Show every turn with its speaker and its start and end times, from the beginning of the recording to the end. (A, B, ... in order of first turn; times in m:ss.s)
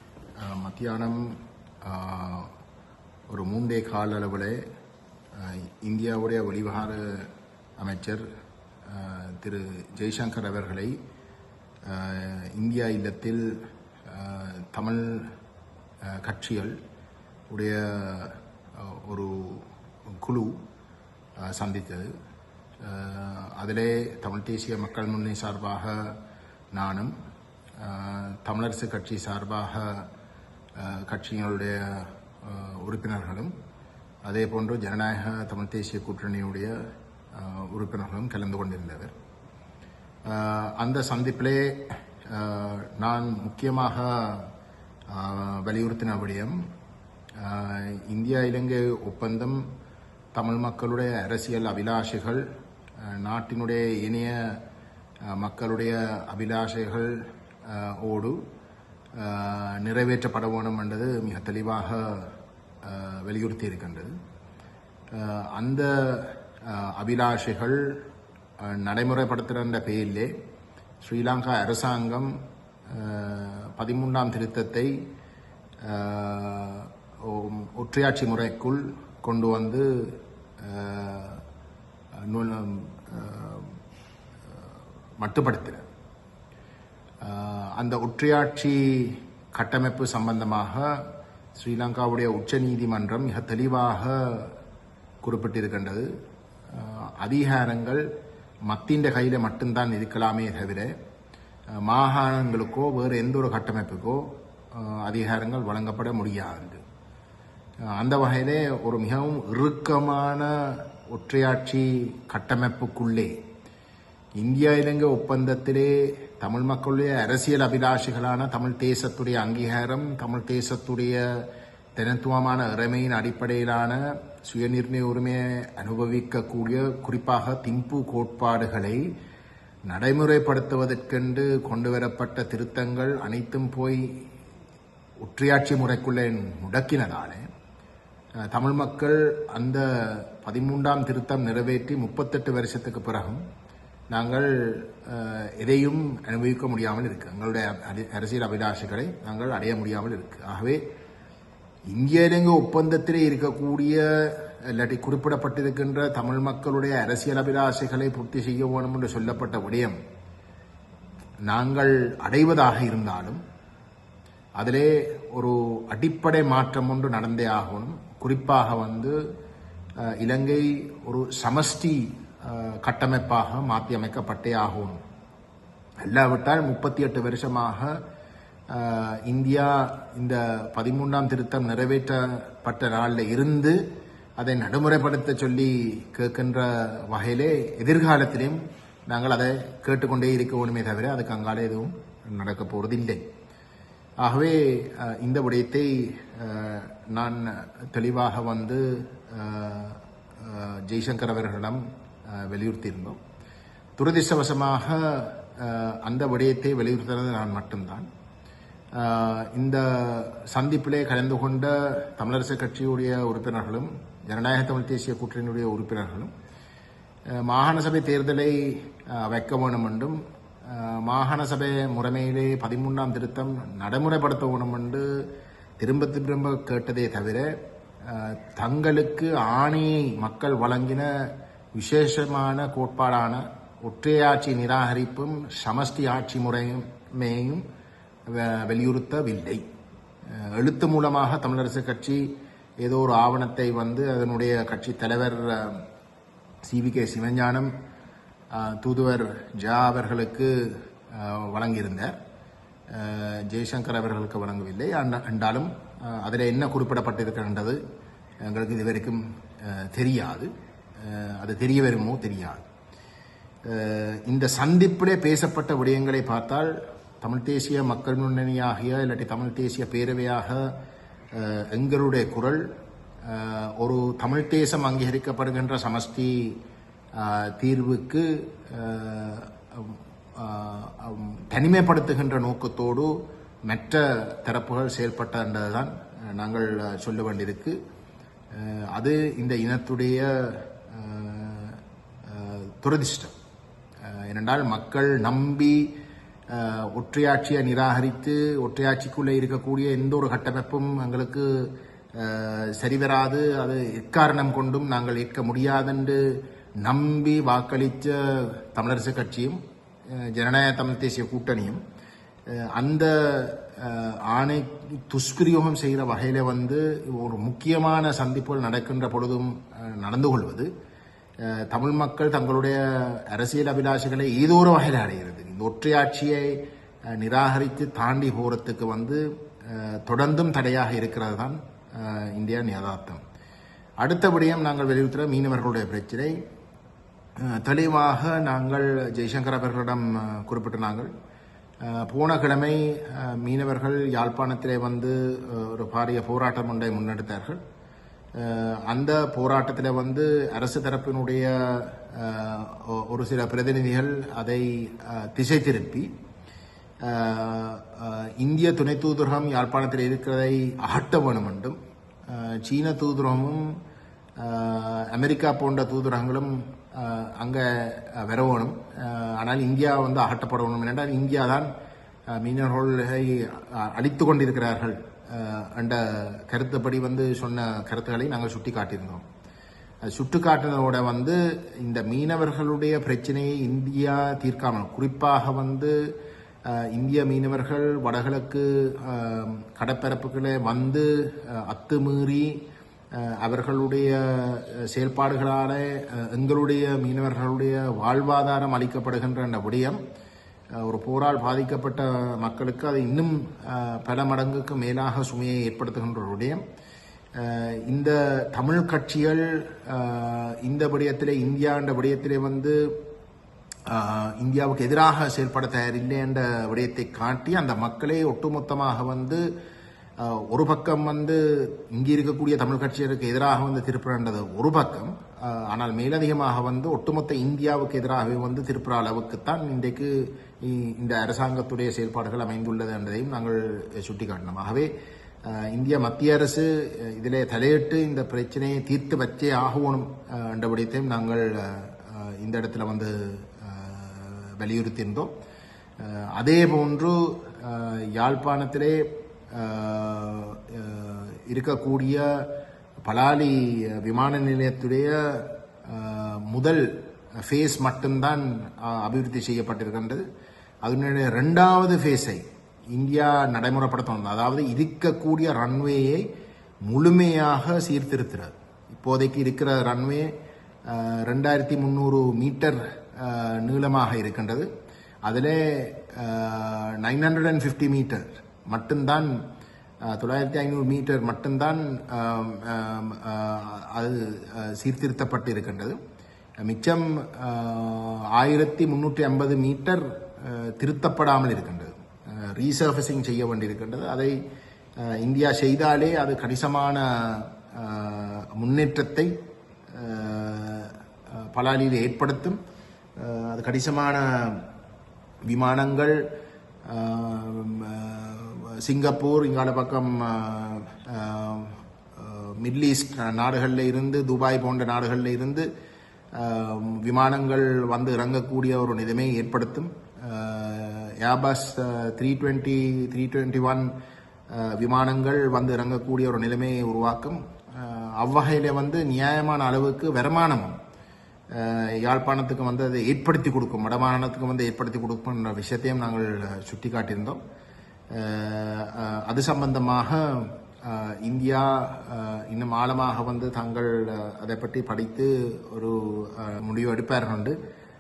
0:00.4-0:02.5 A
0:03.3-0:04.6 A
0:05.3-0:08.2 A
0:08.9-0:10.9 A
0:11.9-0:13.5 A
0:14.1-0:15.3 A
0:16.1-0:16.8 A
0:17.5-0:19.7 A
0:20.2-0:20.6 A
0:21.5-0:22.1 A
0:22.8-0:26.2 A
0:26.7-0:27.1 A
0:27.8-0:30.1 A
0:30.8-0:33.5 A
0:34.2-0:36.8 A
0:37.3-0:39.1 A
0:40.3-0:44.5 A
0:45.1-0:46.6 A
0:47.4-0:49.6 A
0:50.3-0:52.4 A
0:53.1-0:54.6 A
0:55.3-0:58.4 A
0:59.2-1:04.1 A
1:05.1-1:07.8 A
1:08.6-1:10.3 A
1:11.0-1:12.4 A
1:12.9-1:14.9 A
1:15.8-1:21.4 A
1:22.3-1:23.7 A
1:25.2-1:25.8 A
1:27.2-1:30.9 A
1:31.6-1:34.5 A
1:35.2-1:36.1 A
1:36.7-1:38.0 A
1:38.7-1:40.9 A
1:41.8-1:46.8 A
1:48.0-1:53.3 A
1:54.4-2:01.2 A
2:02.0-2:09.0 A
2:09.9-2:14.1 A
2:15.2-2:17.4 A
2:18.5-2:23.4 A
2:24.1-2:30.8 A
2:31.9-2:40.0 A
2:41.5-2:43.4 A
2:44.6-2:49.2 A
2:50.0-2:55.0 A
2:56.0-2:58.0 A
2:58.7-3:03.8 A
3:04.4-3:13.2 A
3:14.2-3:21.8 A
3:22.3-3:23.2 A
3:24.0-3:28.1 A
3:29.0-3:36.3 A
3:37.4-3:45.1 A
3:45.8-3:47.5 A
3:48.0-3:51.1 A
3:51.8-3:57.6 A
3:58.3-3:59.6 A
4:00.4-4:02.2 A
4:02.8-4:05.8 A
4:06.6-4:07.7 A
4:08.5-4:10.5 A
4:11.1-4:12.1 A
4:12.9-4:17.8 A
4:18.4-4:20.5 A
4:21.0-4:22.6 A
4:23.6-4:30.6 A
4:31.3-4:32.6 A
4:33.2-4:36.5 A
4:37.2-4:43.1 A
4:43.7-4:47.8 A
4:48.5-4:53.3 A
4:54.1-4:55.9 A
4:56.5-5:06.2 A
5:06.8-5:09.6 A
5:10.1-5:11.8 A
5:12.5-5:20.7 A
5:21.4-5:26.6 A
5:27.1-5:33.2 A
5:34.0-5:36.4 A
5:37.4-5:41.1 A
5:41.8-5:47.6 A
5:48.4-5:56.1 A
5:57.0-6:01.8 A
6:02.3-6:03.8 A
6:04.4-6:11.7 A
6:12.3-6:19.2 A
6:20.0-6:25.9 A
6:26.7-6:32.6 A
6:33.2-6:40.0 A
6:40.8-6:46.6 A
6:47.4-6:52.8 A
6:53.9-6:59.4 A
7:00.2-7:14.9 A
7:15.4-7:25.3 A
7:26.0-7:32.4 A
7:33.0-7:36.9 A
7:37.4-7:40.2 A
7:40.8-7:42.4 A
7:42.9-7:46.3 A
7:46.9-7:50.3 A
7:50.9-7:54.7 A
7:55.3-7:59.3 A
8:00.1-8:06.0 A
8:06.6-8:14.4 A
8:15.0-8:19.3 A
8:19.9-8:22.6 A
8:23.2-8:24.7 A
8:25.5-8:26.2 A
8:26.9-8:35.7 A
8:36.3-8:43.9 A
8:44.5-8:50.8 A
8:51.5-8:57.4 A
8:58.1-9:07.6 A